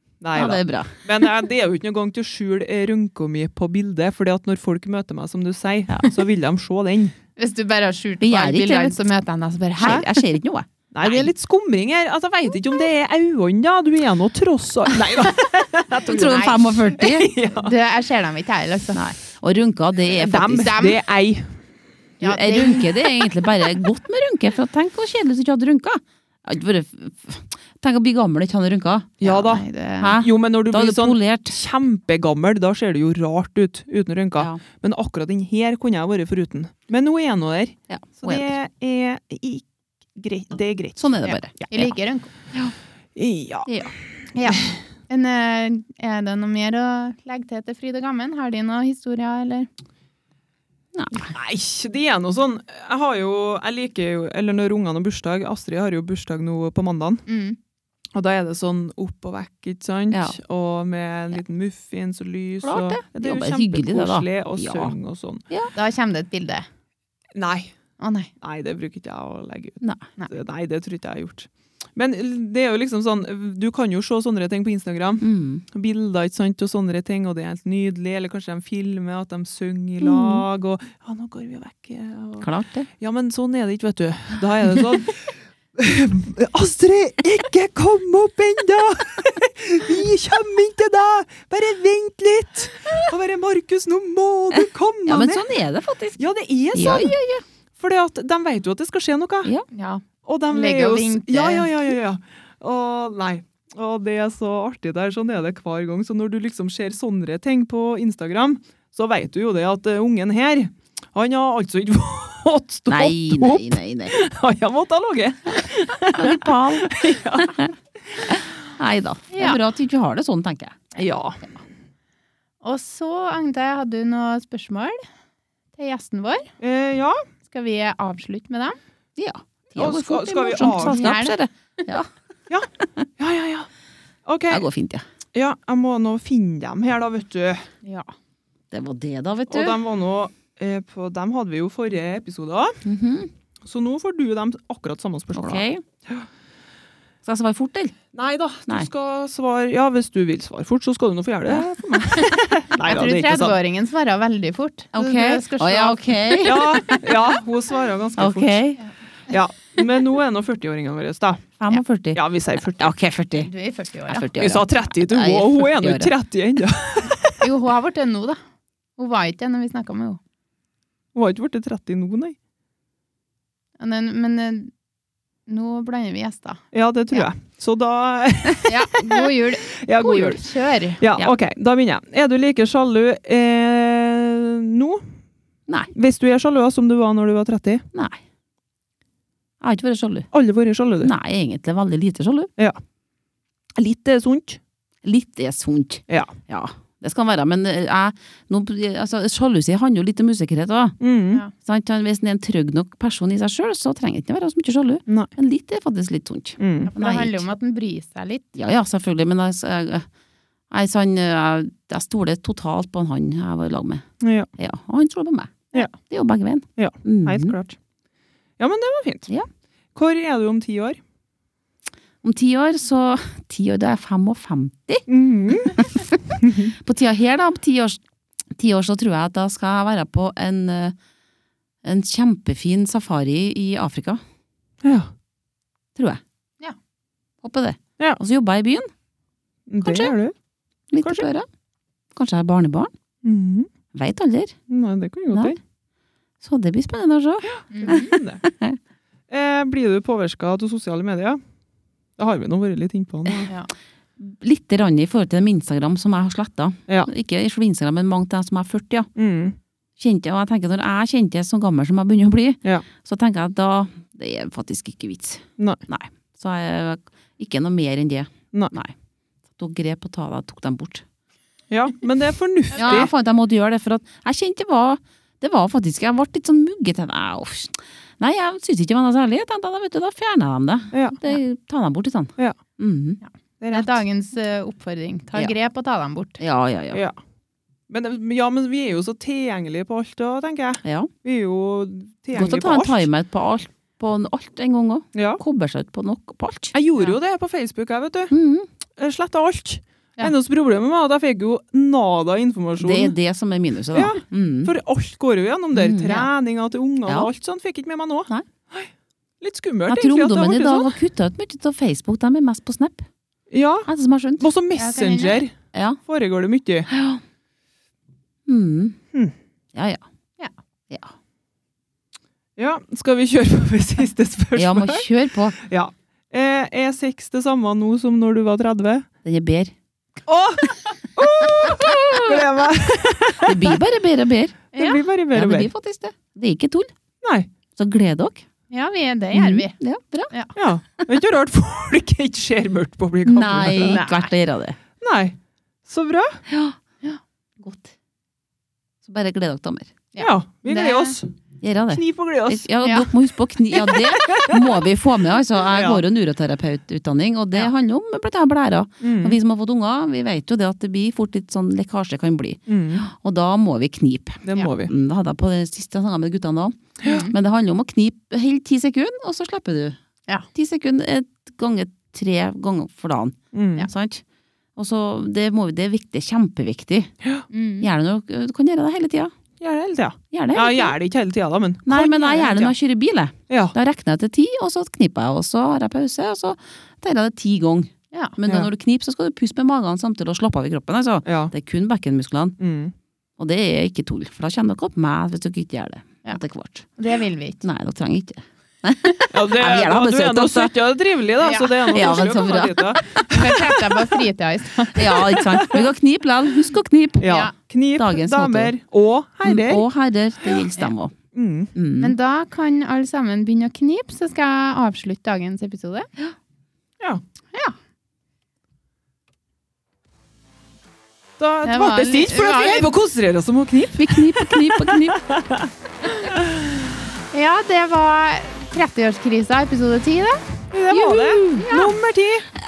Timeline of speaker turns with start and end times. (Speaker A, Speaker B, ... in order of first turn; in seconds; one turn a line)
Speaker A: 0.2-7.1
Speaker B: 0.3-0.9
Speaker B: 5.9-6.1
Speaker C: 7.4-10.1
Speaker B: 8.2-9.0
Speaker B: 9.8-11.3
Speaker A: 10.9-17.7
Speaker B: 16.1-17.3
Speaker C: 16.2-16.7
Speaker C: 17.4-19.0
Speaker B: 18.9-20.8
Speaker A: 20.1-21.6
Speaker C: 20.5-21.0
Speaker C: 22.2-23.2
Speaker B: 22.2-29.3
Speaker A: 29.2-29.6
Speaker C: 29.2-30.2
Speaker B: 30.0-31.6
Speaker A: 30.2-41.1
Speaker B: 37.9-38.5
Speaker B: 41.0-41.9
Speaker C: 41.2-42.3
Speaker A: 43.1-43.8
Speaker B: 43.7-43.9
Speaker C: 44.3-49.7
Speaker B: 50.9-51.3
Speaker A: 51.1-57.2
Speaker C: 57.3-57.6
Speaker A: 58.1-65.4
Speaker B: 60.1-60.4
Speaker B: 62.6-64.9
Speaker C: 65.7-66.7
Speaker A: 67.3-67.7
Speaker C: 68.0-68.3
Speaker A: 68.4-95.5
Speaker B: 75.2-75.6
Speaker B: 80.0-80.4
Speaker B: 82.4-82.9
Speaker B: 94.5-96.2
Speaker A: 96.2-97.2
Speaker B: 96.7-97.4
Speaker A: 97.8-99.5
Speaker C: 99.7-101.7
Speaker A: 100.2-117.5
Speaker B: 112.9-114.1
Speaker B: 116.1-117.7
Speaker B: 118.2-120.9
Speaker C: 119.3-119.6
Speaker A: 120.9-121.5
Speaker C: 122.6-125.0
Speaker C: 125.8-126.5
Speaker A: 126.6-127.2
Speaker C: 127.5-128.8
Speaker B: 129.2-132.1
Speaker A: 129.8-131.1
Speaker C: 130.6-131.9
Speaker A: 132.5-133.7
Speaker B: 132.8-133.0
Speaker A: 134.2-134.6
Speaker B: 134.5-135.0
Speaker A: 135.3-137.7
Speaker C: 137.8-138.1
Speaker B: 138.7-139.8
Speaker A: 139.5-142.8
Speaker B: 142.8-143.3
Speaker A: 143.6-146.2
Speaker B: 145.3-145.8
Speaker B: 147.2-147.9
Speaker A: 148.1-153.6
Speaker C: 152.7-157.0
Speaker B: 154.9-156.8
Speaker A: 156.4-158.6
Speaker B: 158.2-158.8
Speaker A: 159.3-161.6
Speaker B: 161.6-163.5
Speaker A: 162.1-162.9
Speaker C: 163.4-164.3
Speaker B: 164.1-166.1
Speaker A: 164.3-167.5
Speaker C: 167.4-168.4
Speaker C: 169.0-170.2
Speaker A: 171.1-172.3
Speaker C: 173.8-174.7
Speaker C: 175.5-177.3
Speaker A: 176.7-180.4
Speaker C: 178.7-181.0
Speaker A: 181.0-185.1
Speaker A: 185.9-187.8
Speaker B: 187.9-188.2
Speaker B: 189.6-190.3
Speaker A: 190.3-191.1
Speaker B: 191.0-192.5
Speaker A: 193.8-194.6
Speaker B: 195.0-200.9
Speaker A: 196.1-196.3
Speaker A: 201.0-201.4
Speaker B: 201.5-207.4
Speaker A: 205.1-205.3
Speaker A: 206.6-206.9
Speaker C: 206.9-208.5
Speaker B: 208.5-210.1
Speaker B: 210.7-214.0
Speaker A: 214.2-214.5
Speaker B: 214.6-217.5
Speaker A: 216.8-217.8
Speaker A: 218.6-219.3
Speaker A: 219.9-221.0
Speaker B: 222.2-225.0
Speaker A: 225.1-225.8
Speaker B: 225.7-228.0
Speaker A: 226.4-226.7
Speaker B: 228.5-230.9
Speaker B: 231.8-234.2
Speaker A: 234.8-235.1
Speaker B: 235.9-236.2
Speaker B: 237.4-238.9
Speaker A: 239.7-240.3
Speaker B: 239.8-240.1
Speaker B: 240.9-241.5
Speaker A: 241.0-241.3
Speaker B: 242.1-242.9
Speaker A: 243.2-243.7
Speaker B: 243.9-244.5
Speaker A: 244.7-245.6
Speaker B: 245.3-245.6
Speaker B: 246.4-248.8
Speaker A: 247.4-248.4
Speaker C: 247.7-248.1
Speaker A: 249.3-251.4
Speaker A: 252.2-253.5
Speaker B: 253.3-253.5
Speaker B: 254.2-259.1
Speaker A: 259.1-259.6
Speaker B: 260.0-268.9
Speaker B: 269.6-271.0
Speaker A: 271.7-273.1
Speaker B: 272.7-283.2
Speaker A: 280.9-281.2
Speaker A: 283.6-284.0
Speaker C: 283.7-286.4
Speaker B: 286.4-287.0
Speaker A: 286.9-287.2
Speaker A: 287.9-293.1
Speaker B: 290.8-291.1
Speaker B: 292.3-296.7
Speaker A: 295.1-295.4
Speaker A: 296.7-298.3
Speaker B: 298.3-298.7
Speaker A: 299.0-303.2
Speaker B: 302.8-304.7
Speaker A: 303.9-308.9
Speaker B: 305.7-306.3
Speaker A: 309.4-310.9
Speaker B: 309.9-313.1
Speaker A: 313.5-315.6
Speaker B: 313.9-314.5
Speaker C: 314.8-315.4
Speaker B: 315.7-316.0
Speaker A: 316.1-316.9
Speaker B: 316.9-317.2
Speaker B: 318.5-319.0
Speaker B: 319.7-320.0
Speaker A: 322.6-325.1
Speaker B: 324.5-325.6
Speaker A: 325.7-329.1
Speaker B: 329.2-329.7
Speaker A: 330.3-333.8
Speaker B: 331.8-332.3
Speaker B: 333.4-334.6
Speaker C: 334.7-335.0
Speaker A: 334.7-335.7
Speaker B: 335.3-336.9
Speaker A: 337.2-337.5
Speaker B: 337.8-338.4
Speaker C: 338.7-339.7
Speaker B: 339.3-340.3
Speaker A: 340.5-344.0
Speaker B: 343.2-344.8
Speaker C: 343.7-344.3
Speaker A: 345.0-346.4
Speaker B: 346.5-346.8
Speaker B: 347.6-347.9
Speaker B: 349.0-349.9
Speaker C: 350.1-351.2
Speaker A: 350.2-351.3
Speaker B: 351.6-370.0
Speaker A: 351.9-352.6
Speaker C: 352.8-353.1
Speaker A: 353.9-354.6
Speaker A: 355.6-356.0
Speaker A: 359.0-359.4
Speaker A: 362.7-363.1
Speaker A: 364.4-364.9
Speaker A: 367.0-367.3
Speaker C: 367.0-367.3
Speaker B: 370.5-374.2
Speaker A: 373.5-373.9
Speaker B: 374.8-377.1
Speaker C: 377.5-377.9
Speaker B: 377.8-379.3
Speaker A: 379.6-382.7
Speaker B: 380.3-380.9
Speaker B: 381.9-392.6
Speaker A: 383.5-383.7
Speaker C: 388.1-388.4
Speaker A: 391.2-391.5
Speaker A: 392.6-392.9
Speaker B: 393.4-396.9
Speaker C: 397.0-397.6
Speaker B: 397.6-400.7
Speaker A: 399.3-404.0
Speaker C: 401.4-401.9
Speaker B: 401.9-403.0
Speaker C: 403.3-405.4
Speaker B: 404.9-407.4
Speaker A: 405.5-405.9
Speaker A: 407.2-409.9
Speaker C: 407.2-407.5
Speaker B: 407.9-408.7
Speaker B: 409.4-411.1
Speaker A: 411.3-411.7
Speaker B: 411.7-412.1
Speaker C: 412.0-416.1
Speaker A: 421.4-425.7
Speaker C: 421.6-422.9
Speaker B: 423.9-425.2
Speaker C: 427.3-431.9
Speaker A: 430.7-432.5